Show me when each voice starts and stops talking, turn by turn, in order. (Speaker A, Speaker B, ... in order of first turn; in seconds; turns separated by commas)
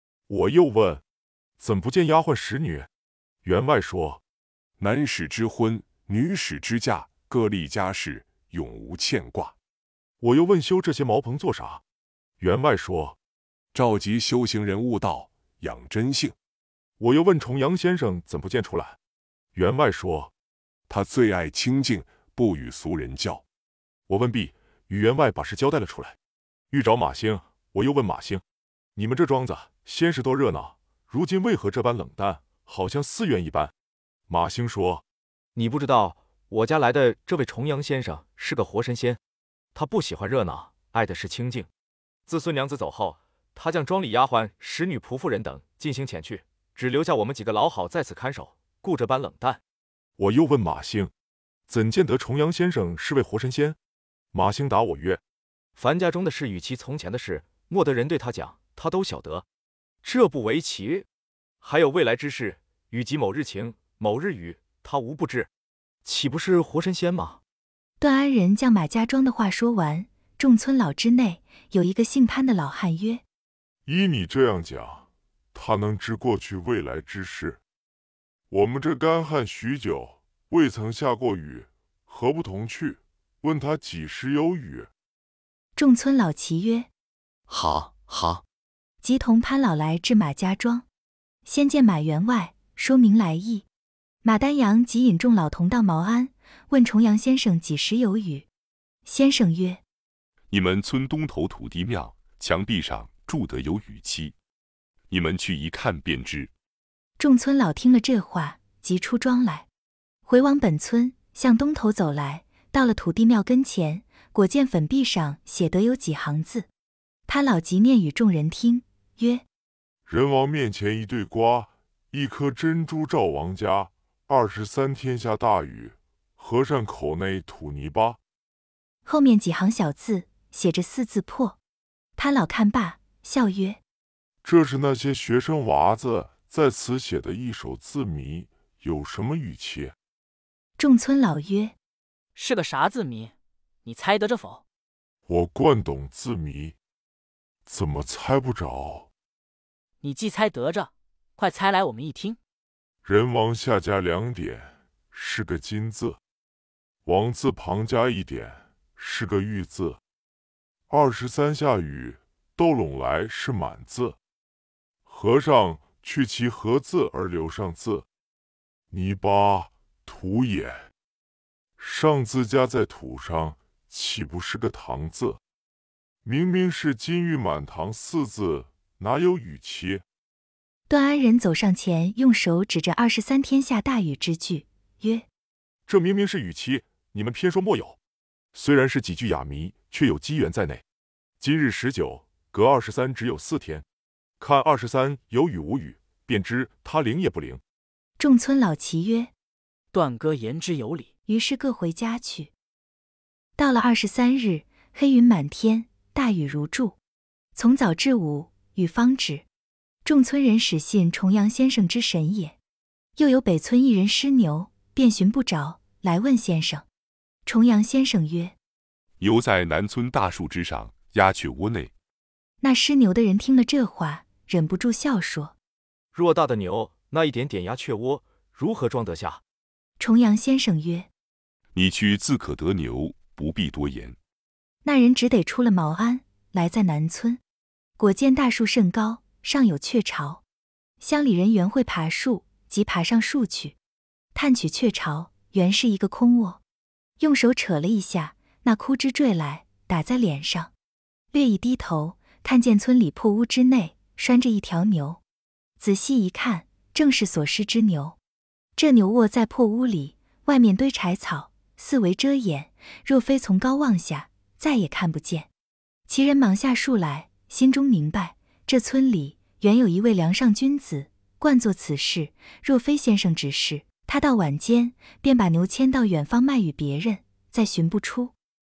Speaker A: 0.3-1.0, Speaker A: 1.6-2.9, Speaker A: 3.4-4.2, Speaker B: 4.8-9.5, Speaker A: 10.2-11.8, Speaker A: 12.4-13.2, Speaker B: 13.7-16.4, Speaker A: 17.0-19.0, Speaker A: 19.6-20.3, Speaker B: 20.9-23.4, Speaker A: 24.1-26.2, Speaker A: 26.7-28.4, Speaker A: 29.0-33.7, Speaker A: 34.3-35.0, Speaker C: 35.6-39.2, Speaker C: 39.8-41.7, Speaker C: 42.3-49.6, Speaker A: 50.2-51.1, Speaker A: 51.7-53.8, Speaker A: 54.3-55.2, Speaker C: 55.8-59.5, Speaker C: 60.0-61.1, Speaker C: 61.6-65.5, Speaker C: 66.0-67.4, Speaker D: 68.0-73.2, Speaker A: 73.9-77.6, Speaker A: 78.5-84.9, Speaker D: 85.8-86.9, Speaker D: 89.0-90.9, Speaker D: 91.5-93.7, Speaker D: 94.2-98.5, Speaker D: 99.0-99.8, Speaker E: 100.5-104.3, Speaker E: 105.1-106.5, Speaker D: 107.2-109.7, Speaker D: 110.3-116.7, Speaker D: 117.3-119.5, Speaker A: 120.1-128.2, Speaker D: 129.1-131.6, Speaker D: 132.2-133.8, Speaker A: 134.4-139.9, Speaker D: 140.8-141.8, Speaker F: 142.4-143.3, Speaker F: 143.8-144.6, Speaker A: 145.3-146.8, Speaker A: 147.7-149.1, Speaker F: 150.0-152.4, Speaker A: 153.0-156.2, Speaker A: 157.1-160.0, Speaker A: 160.9-164.2, Speaker A: 165.1-168.1, Speaker A: 168.9-170.9, Speaker A: 171.8-175.4, Speaker A: 176.2-180.0, Speaker D: 180.9-185.3, Speaker A: 185.9-188.0, Speaker A: 188.5-190.8, Speaker A: 191.4-193.8, Speaker A: 194.4-197.6, Speaker D: 198.2-199.3, Speaker F: 199.9-201.1, Speaker D: 201.3-202.5, Speaker D: 203.6-207.0, Speaker D: 207.6-209.4, Speaker D: 210.1-212.6, Speaker D: 213.2-216.9, Speaker D: 217.5-218.6, Speaker E: 219.2-221.9, Speaker D: 222.6-225.6, Speaker C: 226.1-229.4, Speaker D: 230.0-231.1, Speaker E: 231.7-234.2, Speaker D: 234.8-237.4, Speaker D: 238.0-240.4, Speaker D: 241.0-243.8, Speaker D: 244.3-246.6, Speaker D: 247.2-250.7, Speaker D: 251.3-255.2, Speaker D: 255.8-258.2, Speaker D: 258.8-265.5, Speaker D: 266.1-278.3